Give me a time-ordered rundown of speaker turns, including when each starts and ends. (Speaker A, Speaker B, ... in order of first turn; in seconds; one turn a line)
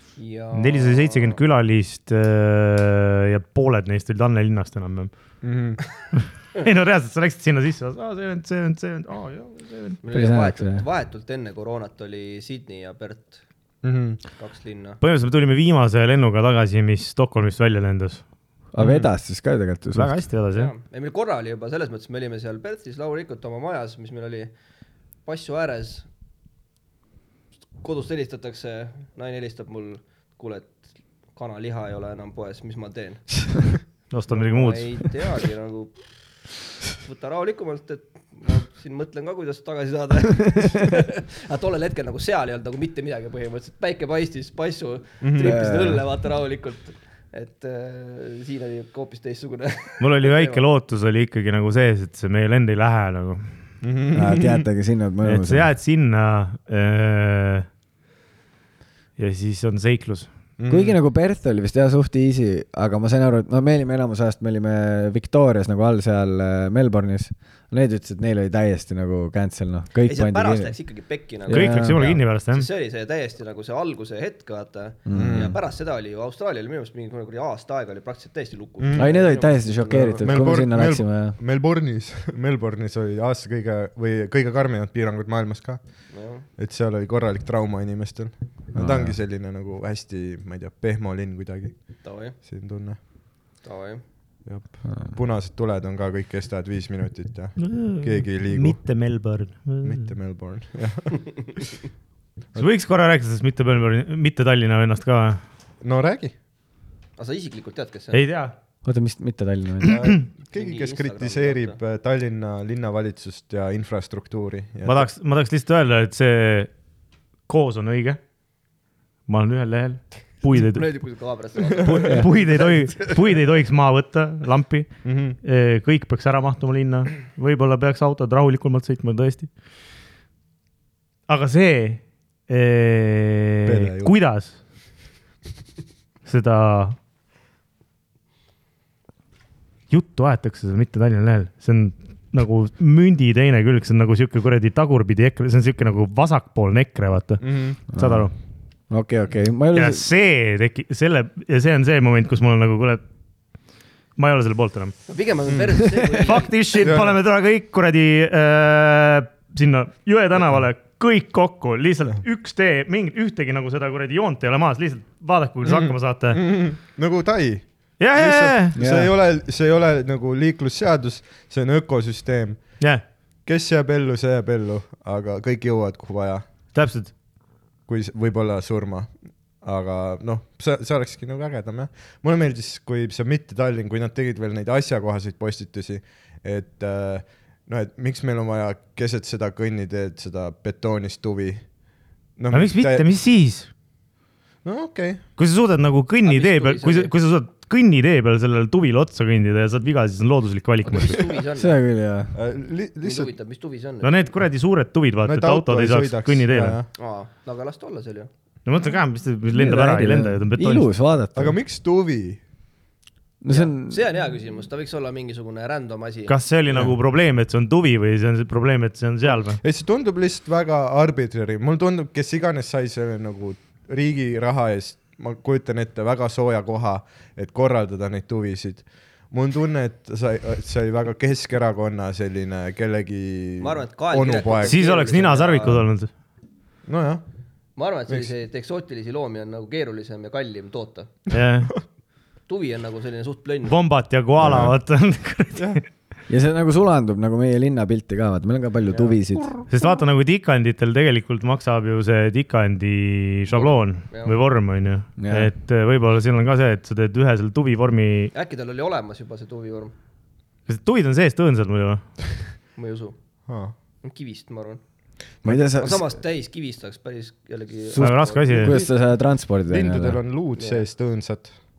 Speaker A: 0.2-1.4
Speaker B: 0.5-5.1
Speaker C: 5.4-5.8
Speaker B: 6.2-10.0
Speaker A: 10.0-13.4
Speaker D: 10.1-10.8
Speaker C: 13.8-14.2
Speaker A: 14.4-15.0
Speaker B: 15.0-18.2
Speaker D: 18.7-20.2
Speaker C: 18.8-19.1
Speaker B: 19.9-20.7
Speaker A: 20.5-24.5
Speaker A: 25.2-26.1
Speaker A: 27.8-36.0
Speaker B: 34.1-35.0
Speaker A: 36.9-50.6
Speaker C: 45.2-45.6
Speaker D: 45.4-46.0
Speaker B: 50.0-53.5
Speaker C: 53.8-54.6
Speaker D: 54.1-55.7
Speaker B: 55.2-57.7
Speaker B: 59.2-60.3
Speaker C: 60.6-61.0
Speaker D: 60.7-70.8
Speaker A: 70.0-80.5
Speaker D: 71.4-72.0
Speaker B: 71.5-72.7
Speaker D: 75.0-75.5
Speaker C: 75.1-75.5
Speaker C: 78.8-79.1
Speaker D: 78.9-81.4
Speaker C: 80.2-93.0
Speaker A: 86.1-86.4
Speaker D: 88.7-89.2
Speaker A: 92.0-92.3
Speaker A: 93.6-94.0
Speaker C: 94.4-98.8
Speaker D: 94.9-95.1
Speaker B: 97.6-100.1
Speaker C: 99.8-101.4
Speaker B: 102.5-105.4
Speaker C: 105.8-106.3
Speaker A: 107.2-108.2
Speaker B: 108.1-108.5
Speaker D: 108.8-110.0
Speaker C: 109.8-115.1
Speaker A: 110.5-111.8
Speaker B: 114.8-116.7
Speaker B: 117.5-118.2
Speaker B: 119.3-120.9
Speaker A: 120.5-123.3
Speaker B: 121.8-129.5
Speaker C: 125.0-125.4
Speaker B: 131.3-134.6
Speaker C: 133.6-134.1
Speaker B: 136.2-137.0
Speaker B: 139.9-148.3
Speaker C: 147.4-147.8
Speaker D: 147.9-148.3
Speaker D: 148.9-150.0
Speaker B: 149.7-153.0
Speaker B: 154.2-155.0
Speaker A: 155.1-156.6
Speaker C: 155.5-155.8
Speaker B: 156.2-166.4
Speaker C: 156.8-157.2
Speaker C: 165.6-172.8
Speaker B: 168.0-168.8
Speaker D: 168.8-169.1
Speaker C: 173.4-176.4
Speaker B: 176.7-177.1
Speaker C: 177.9-191.6
Speaker C: 192.4-193.1
Speaker B: 192.5-193.7
Speaker C: 194.6-195.2
Speaker B: 195.4-201.4
Speaker A: 196.2-197.1
Speaker A: 200.8-201.7
Speaker D: 201.6-202.3
Speaker C: 202.3-203.3
Speaker A: 203.0-204.2
Speaker B: 204.0-206.8
Speaker C: 205.2-206.9
Speaker A: 206.9-208.3
Speaker B: 208.7-210.8
Speaker D: 209.5-211.6
Speaker C: 211.3-212.4
Speaker D: 213.4-214.0
Speaker A: 213.5-216.3
Speaker B: 216.3-219.6
Speaker C: 219.6-234.8
Speaker A: 233.6-235.8
Speaker B: 234.6-236.1
Speaker C: 236.8-237.2
Speaker A: 237.8-241.2
Speaker B: 241.3-241.8
Speaker A: 242.5-243.7
Speaker B: 243.7-245.8
Speaker C: 244.4-244.7
Speaker C: 245.5-245.8
Speaker D: 246.3-249.5
Speaker C: 249.4-249.6
Speaker B: 249.7-258.3
Speaker A: 253.5-254.3
Speaker D: 255.2-255.5
Speaker A: 258.3-259.9
Speaker B: 260.7-262.0
Speaker A: 262.8-263.1
Speaker C: 263.5-263.7
Speaker A: 264.0-264.8
Speaker D: 265.4-266.1
Speaker A: 265.8-268.9
Speaker D: 267.9-270.2
Speaker B: 267.9-268.7
Speaker C: 269.7-271.5
Speaker A: 270.6-270.8